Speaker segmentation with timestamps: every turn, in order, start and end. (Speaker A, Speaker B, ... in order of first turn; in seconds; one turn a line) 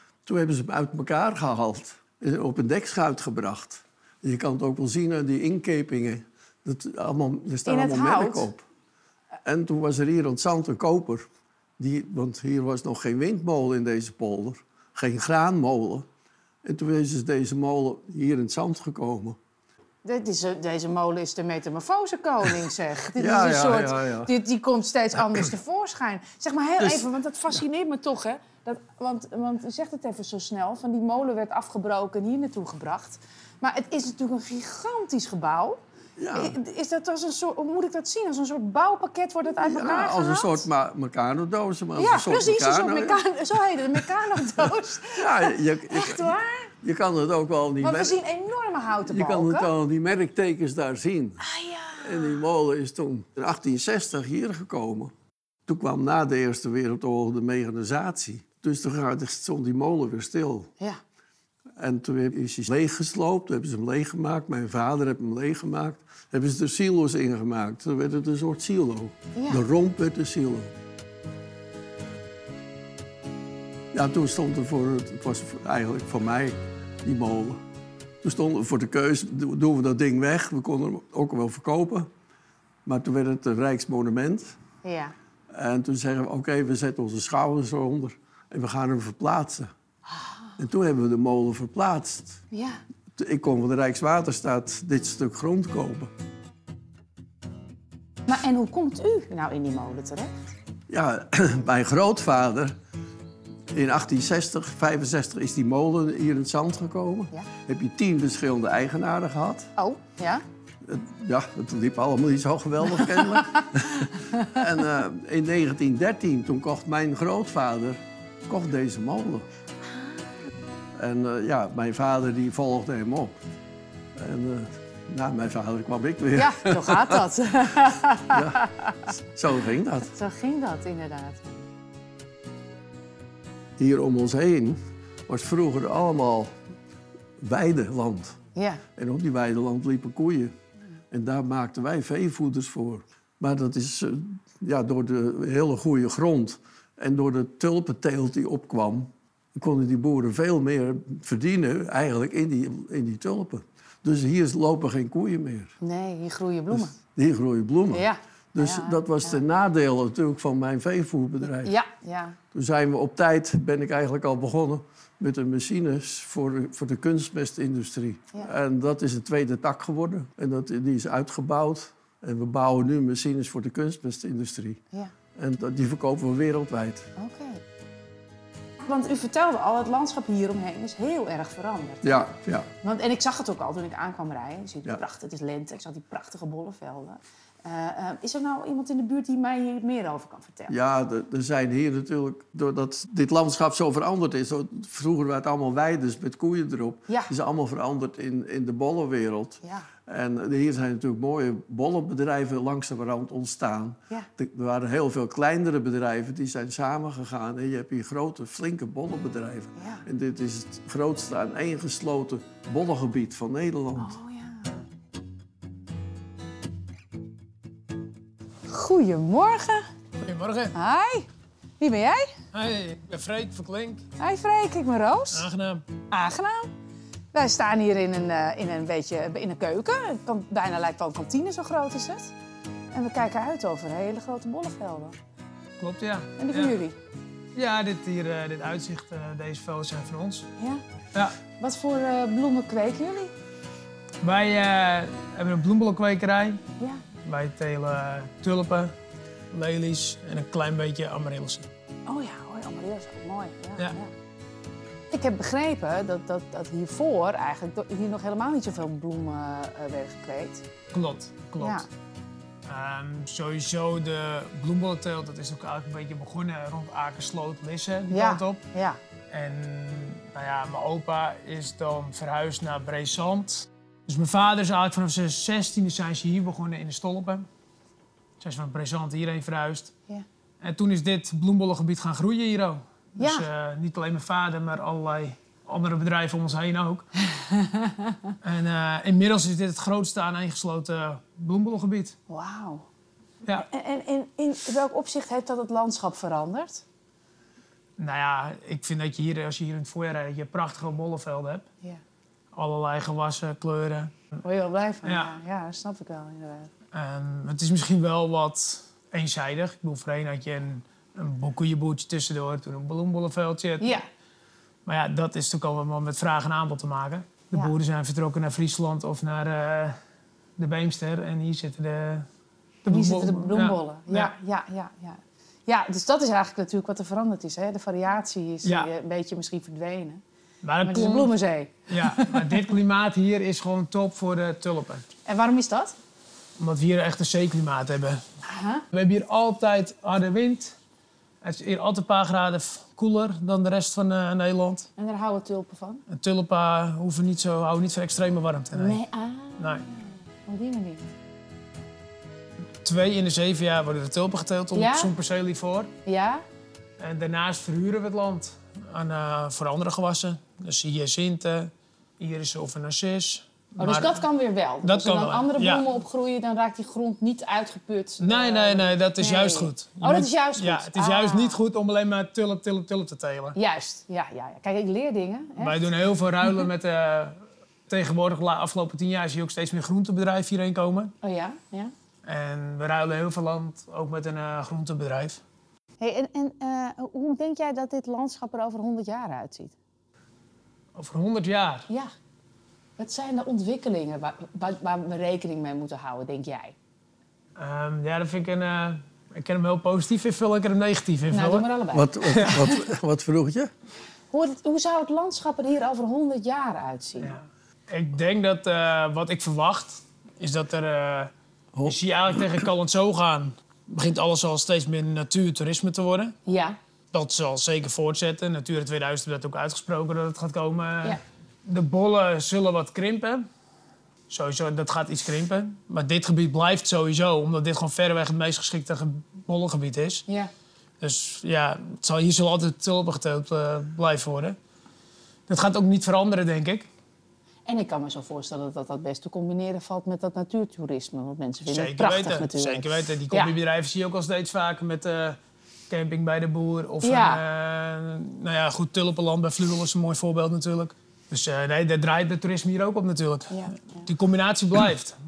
Speaker A: 0.2-8.7
Speaker B: 7.7-8.5
Speaker A: 9.4-11.3
Speaker A: 11.8-16.1
Speaker A: 16.6-19.4
Speaker B: 20.0-35.8
Speaker A: 23.2-24.3
Speaker A: 26.8-27.1
Speaker A: 36.2-36.6
Speaker B: 36.4-40.7
Speaker A: 39.6-43.2
Speaker B: 42.0-46.7
Speaker A: 45.1-48.2
Speaker B: 47.8-49.7
Speaker A: 49.1-51.4
Speaker B: 51.4-52.4
Speaker A: 52.0-55.1
Speaker A: 55.7-60.7
Speaker A: 61.8-70.7
Speaker B: 69.4-69.6
Speaker A: 73.9-77.6
Speaker A: 78.2-82.1
Speaker A: 82.8-84.6
Speaker B: 84.8-85.2
Speaker A: 85.5-89.7
Speaker B: 90.1-90.5
Speaker A: 90.6-92.4
Speaker B: 92.5-92.8
Speaker A: 93.2-96.1
Speaker B: 98.3-100.3
Speaker A: 100.9-102.8
Speaker A: 103.7-109.7
Speaker B: 109.8-110.4
Speaker A: 110.8-119.5
Speaker B: 112.9-114.6
Speaker B: 119.9-120.2
Speaker A: 121.0-123.3
Speaker A: 124.2-127.2
Speaker B: 126.4-129.1
Speaker A: 128.3-130.1
Speaker B: 130.1-131.7
Speaker A: 133.8-136.6
Speaker A: 137.4-138.4
Speaker B: 138.6-138.8
Speaker A: 139.0-140.5
Speaker A: 141.1-155.7
Speaker B: 155.8-156.9
Speaker A: 156.7-161.7
Speaker B: 157.9-159.4
Speaker B: 161.6-162.4
Speaker A: 162.5-174.8
Speaker A: 175.4-177.1
Speaker B: 177.2-177.6
Speaker B: 178.8-182.2
Speaker A: 182.0-182.7
Speaker B: 182.8-190.7
Speaker A: 190.7-214.2
Speaker B: 209.8-210.0
Speaker B: 214.0-214.8
Speaker B: 218.7-219.9
Speaker C: 220.2-220.7
Speaker B: 220.7-221.3
Speaker B: 221.8-222.3
Speaker C: 222.5-224.1
Speaker B: 224.2-225.5
Speaker C: 225.3-225.9
Speaker B: 226.1-226.7
Speaker B: 227.3-232.3
Speaker B: 232.9-235.2
Speaker C: 235.8-236.8
Speaker B: 236.4-237.0
Speaker C: 237.6-240.5
Speaker B: 240.6-240.8
Speaker B: 241.5-243.3
Speaker C: 244.2-246.6
Speaker C: 247.2-248.9
Speaker C: 249.5-251.7
Speaker B: 252.1-254.1
Speaker B: 255.1-260.6
Speaker C: 260.9-261.9
Speaker B: 261.6-261.9
Speaker C: 262.7-268.6
Speaker B: 268.1-269.0
Speaker C: 269.3-277.5
Speaker C: 278.4-279.9
Speaker C: 280.6-287.1
Speaker B: 283.2-283.5
Speaker B: 287.3-288.3
Speaker C: 288.4-292.1
Speaker B: 292.3-292.9
Speaker B: 293.6-296.8
Speaker C: 298.0-301.6
Speaker C: 302.5-304.2
Speaker B: 304.4-306.7
Speaker C: 305.0-305.3
Speaker C: 306.9-314.0
Speaker B: 313.8-314.1
Speaker C: 314.9-320.0
Speaker C: 320.6-322.3
Speaker C: 322.8-324.3
Speaker B: 322.9-330.2
Speaker C: 328.6-328.9
Speaker C: 330.6-331.3
Speaker B: 330.8-332.6
Speaker C: 331.9-335.1
Speaker B: 335.3-335.9
Speaker C: 336.6-338.2
Speaker B: 338.4-338.9
Speaker C: 338.9-340.8
Speaker C: 341.4-344.9
Speaker B: 345.0-346.0
Speaker C: 346.1-349.0
Speaker B: 348.7-351.1
Speaker C: 349.6-349.9
Speaker C: 352.8-355.9
Speaker B: 354.7-355.1
Speaker B: 356.1-356.4
Speaker C: 357.0-364.2
Speaker B: 363.8-371.6
Speaker C: 364.8-365.9
Speaker C: 368.2-373.6
Speaker B: 373.6-375.9
Speaker C: 375.6-381.1
Speaker B: 381.2-381.9
Speaker C: 382.2-385.4
Speaker B: 386.0-389.8
Speaker C: 391.0-391.9
Speaker B: 393.0-396.8
Speaker C: 397.6-401.7
Speaker B: 401.3-402.8
Speaker A: 401.9-403.7
Speaker C: 402.3-402.6
Speaker B: 404.3-407.4
Speaker C: 407.2-411.3
Speaker A: 411.7-412.7
Speaker C: 411.9-416.4
Speaker B: 416.5-416.8
Speaker C: 417.1-423.4
Speaker C: 424.3-430.2
Speaker C: 431.0-434.6
Speaker C: 435.5-436.9
Speaker B: 437.7-443.5
Speaker C: 441.7-445.4
Speaker C: 445.9-455.2
Speaker B: 447.0-447.4
Speaker B: 453.5-454.1